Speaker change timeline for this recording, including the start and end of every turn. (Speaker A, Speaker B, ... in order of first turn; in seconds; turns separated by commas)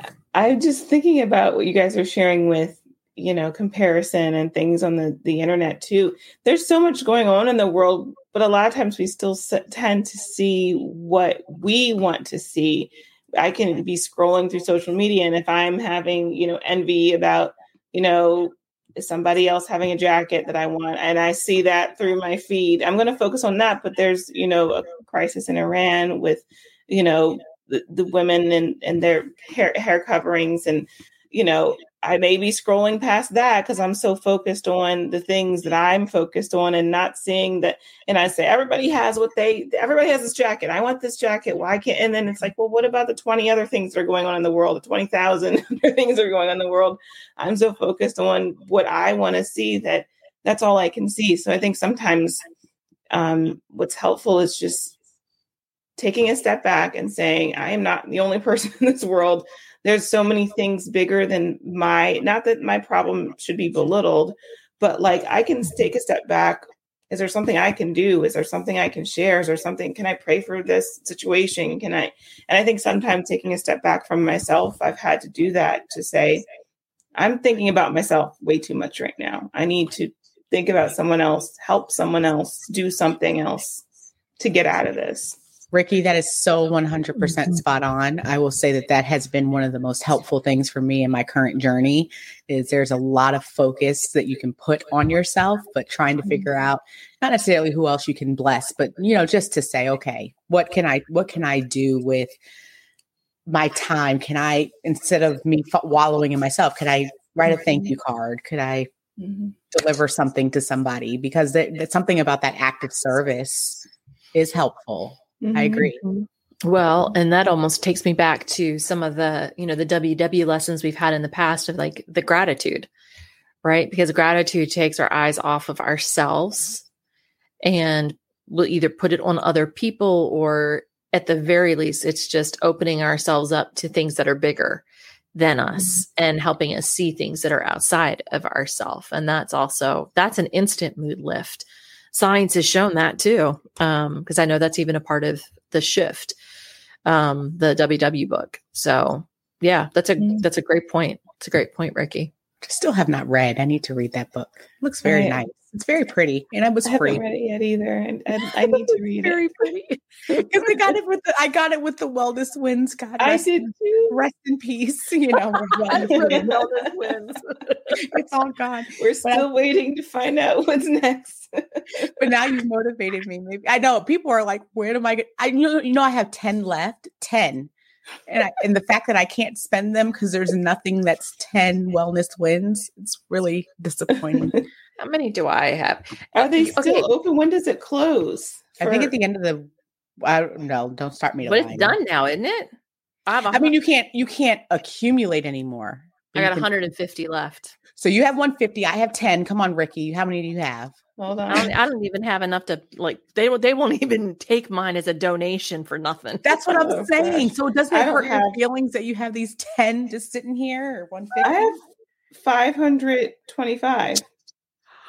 Speaker A: 0.3-52.4, Speaker A: 53.1-54.9, Speaker A: 56.0-76.5, Speaker A: 77.1-83.8, Speaker A: 84.4-85.4, Speaker B: 85.7-102.3, Speaker B: 103.5-108.9, Speaker A: 109.2-109.5, Speaker B: 109.7-116.0, Speaker A: 115.4-115.9, Speaker C: 116.0-122.9, Speaker C: 123.6-126.8, Speaker C: 127.6-134.8, Speaker C: 135.3-146.3, Speaker C: 147.1-152.3, Speaker A: 150.2-150.4, Speaker B: 152.6-157.2, Speaker A: 155.0-155.4, Speaker A: 156.8-159.4, Speaker C: 158.7-160.7, Speaker B: 160.3-166.6, Speaker A: 163.2-164.2, Speaker C: 165.9-168.0, Speaker A: 165.9-166.6, Speaker B: 167.9-169.4, Speaker A: 169.0-172.3, Speaker B: 172.2-177.7, Speaker B: 178.3-184.6, Speaker A: 184.3-184.6, Speaker C: 185.0-187.1, Speaker A: 186.3-189.1, Speaker B: 188.8-189.7, Speaker B: 190.2-192.0, Speaker C: 191.4-192.7, Speaker C: 193.3-193.7, Speaker B: 193.5-196.7, Speaker C: 196.3-197.7, Speaker B: 198.0-201.0, Speaker A: 201.2-201.7, Speaker C: 201.5-206.6, Speaker B: 206.4-211.7, Speaker A: 206.8-208.6, Speaker A: 211.4-211.8, Speaker A: 212.4-214.2